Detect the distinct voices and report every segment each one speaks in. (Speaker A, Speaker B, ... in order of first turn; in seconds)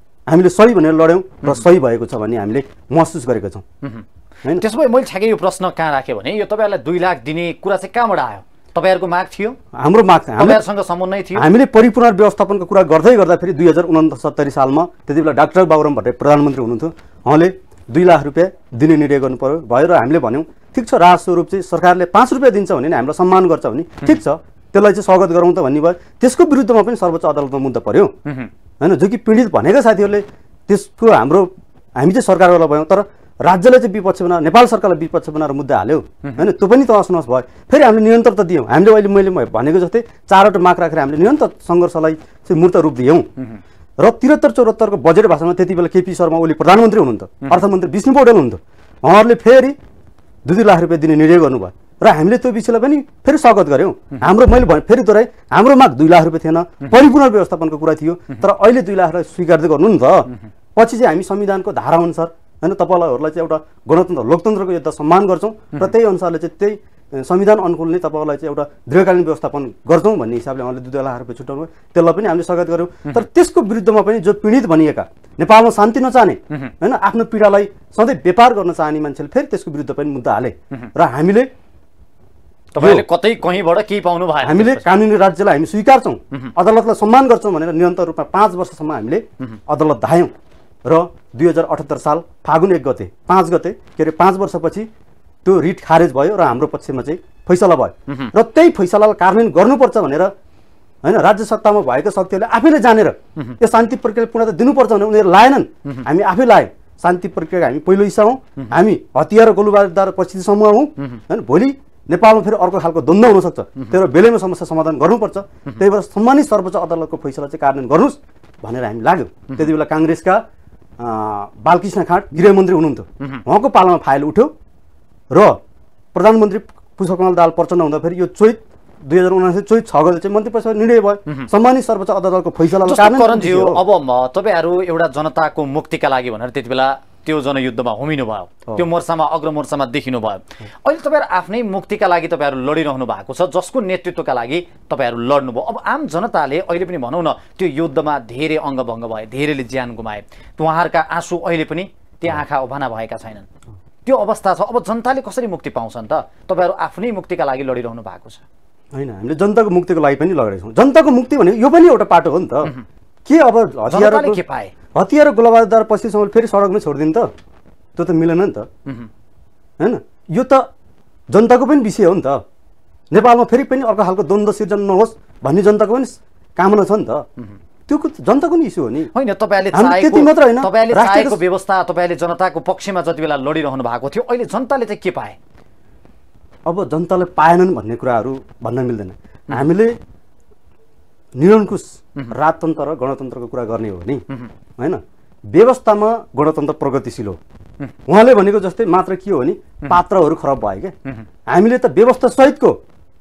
Speaker A: 0.3-3.6, 9.8-10.6, 11.3-28.1, 28.8-43.3, 44.0-49.8, 50.5-81.5, 82.8-83.0, 84.4-90.3, 90.9-94.9, 95.5-100.3, 101.0-120.4, 121.0-124.5, 125.3-125.6, 126.1-133.8, 158.9-162.7, 163.2-164.4, 164.9-167.3, 168.0-168.7, 169.8-170.7, 171.3-172.4, 173.1-177.3, 177.9-179.1, 179.7-181.4, 186.7-190.0, 191.4-194.2, 195.5-197.4, 198.1-200.9, 201.5-202.8
Speaker B: 3.8-9.6, 10.4-11.5, 28.2-28.5, 82.7-84.9, 132.8-153.5, 154.1-158.4, 163.9-164.7, 179.2-185.4